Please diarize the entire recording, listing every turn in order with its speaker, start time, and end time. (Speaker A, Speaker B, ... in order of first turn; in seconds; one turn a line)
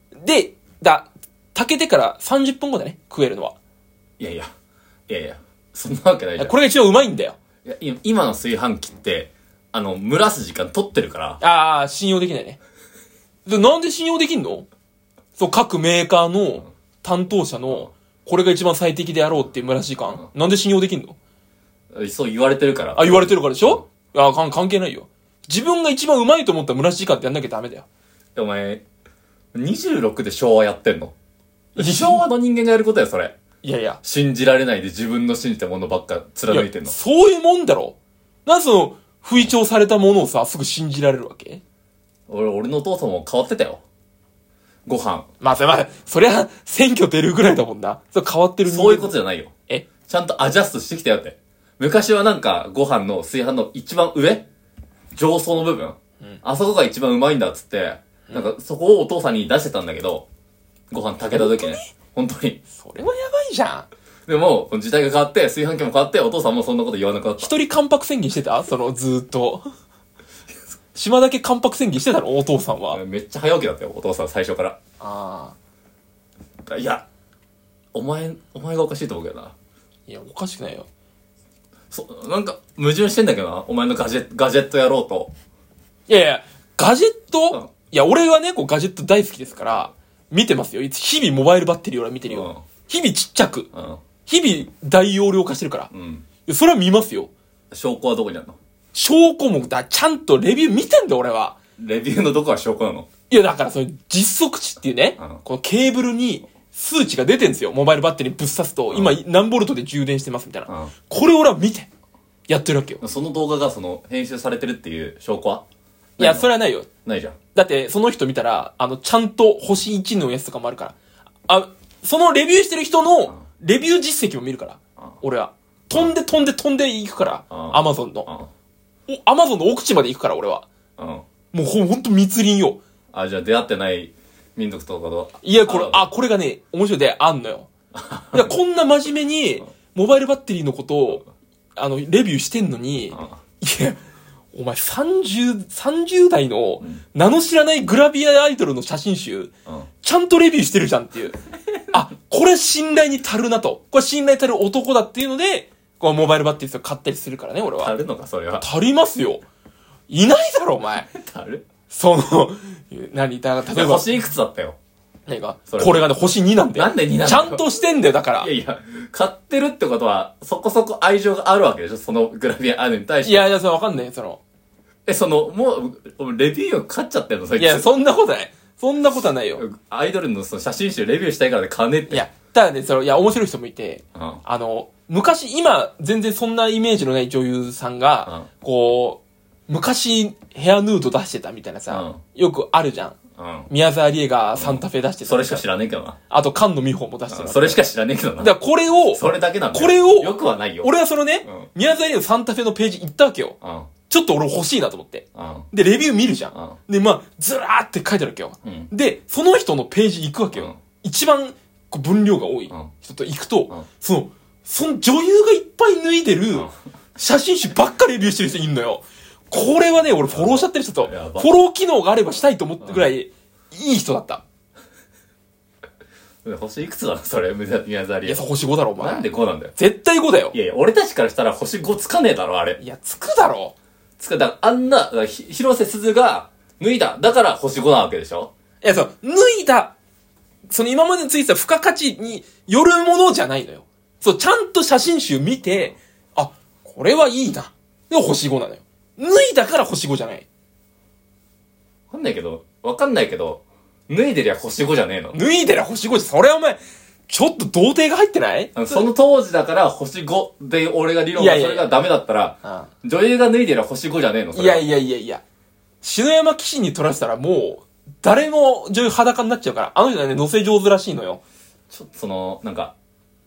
Speaker A: 0.2-3.5
Speaker B: 4.2-4.5
Speaker B: 5.1-6.5
Speaker A: 6.4-7.3
Speaker B: 7.6-11.4
Speaker A: 11.4-12.6
Speaker A: 13.4-14.7
Speaker A: 15.4-21.1
Speaker B: 21.9-23.8
Speaker A: 22.9-27.8
Speaker B: 28.3-28.8
Speaker B: 29.5-31.1
Speaker A: 31.8-32.3
Speaker B: 31.8-33.3
Speaker A: 33.6-34.0
Speaker B: 34.0-36.9
Speaker A: 36.5-41.6
Speaker B: 42.3-43.8
Speaker B: 44.9-45.3
Speaker A: 45.4-49.1
Speaker B: 48.6-49.5
Speaker B: 50.1-54.5
Speaker B: 55.1-60.3
Speaker B: 60.9-62.6
Speaker A: 61.3-61.9
Speaker A: 62.7-63.9
Speaker B: 64.3-67.5
Speaker A: 67.4-69.7
Speaker A: 70.9-73.0
Speaker B: 72.9-74.8
Speaker A: 75.0-75.5
Speaker B: 76.7-77.0
Speaker B: 77.9-79.5
Speaker A: 80.1-80.9
Speaker B: 81.9-85.3
Speaker A: 86.1-93.7
Speaker B: 92.3-92.6
Speaker B: 93.7-94.0
Speaker A: 94.3-95.9
Speaker B: 95.9-96.2
Speaker A: 96.4-97.3
Speaker B: 97.7-98.5
Speaker A: 98.9-101.5
Speaker B: 101.8-103.1
Speaker A: 103.3-111.9
Speaker B: 108.9-109.2
Speaker B: 110.7-110.9
Speaker A: 112.5-113.0
Speaker B: 113.0-115.6
Speaker B: 116.2-116.5
Speaker A: 116.2-116.9
Speaker B: 117.0-117.4
Speaker A: 117.5-120.9
Speaker A: 121.5-128.3
Speaker B: 127.5-128.5
Speaker A: 129.1-130.7
Speaker B: 131.0-131.2
Speaker A: 131.5-132.8
Speaker B: 133.1-136.1
Speaker A: 135.4-137.7
Speaker B: 137.9-138.5
Speaker A: 138.3-144.0
Speaker B: 143.1-143.4
Speaker A: 144.5-149.5
Speaker A: 150.0-151.4
Speaker A: 151.9-157.9
Speaker B: 157.7-158.7
Speaker A: 158.6-159.4
Speaker A: 160.1-161.1
Speaker B: 161.1-161.6
Speaker A: 161.9-164.1
Speaker B: 163.7-164.8
Speaker A: 165.3-168.5
Speaker B: 165.7-166.2
Speaker B: 166.7-167.6
Speaker B: 168.4-173.5
Speaker A: 173.2-174.4
Speaker B: 175.1-177.9
Speaker A: 177.6-179.6
Speaker B: 179.5-182.3
Speaker A: 182.1-193.2
Speaker B: 184.1-184.4
Speaker B: 191.9-192.2
Speaker B: 193.4-193.7
Speaker A: 193.7-195.6
Speaker B: 194.6-196.2
Speaker A: 196.3-197.8
Speaker B: 197.3-198.6
Speaker A: 198.4-203.6
Speaker B: 199.1-200.9
Speaker B: 203.6-203.9
Speaker A: 204.1-224.4
Speaker B: 205.3-205.7
Speaker B: 208.6-208.9
Speaker B: 220.3-221.5
Speaker B: 222.8-223.1
Speaker B: 226.4-228.4
Speaker A: 228.2-230.5
Speaker B: 229.0-229.7
Speaker B: 230.5-232.8
Speaker A: 232.8-233.7
Speaker B: 234.2-238.5
Speaker A: 238.8-239.9
Speaker A: 240.7-250.4
Speaker B: 252.1-255.4
Speaker A: 255.3-259.0
Speaker B: 258.7-264.9
Speaker A: 261.3-261.9
Speaker A: 262.6-262.9
Speaker A: 264.5-265.4
Speaker A: 266.0-271.4
Speaker B: 271.9-272.9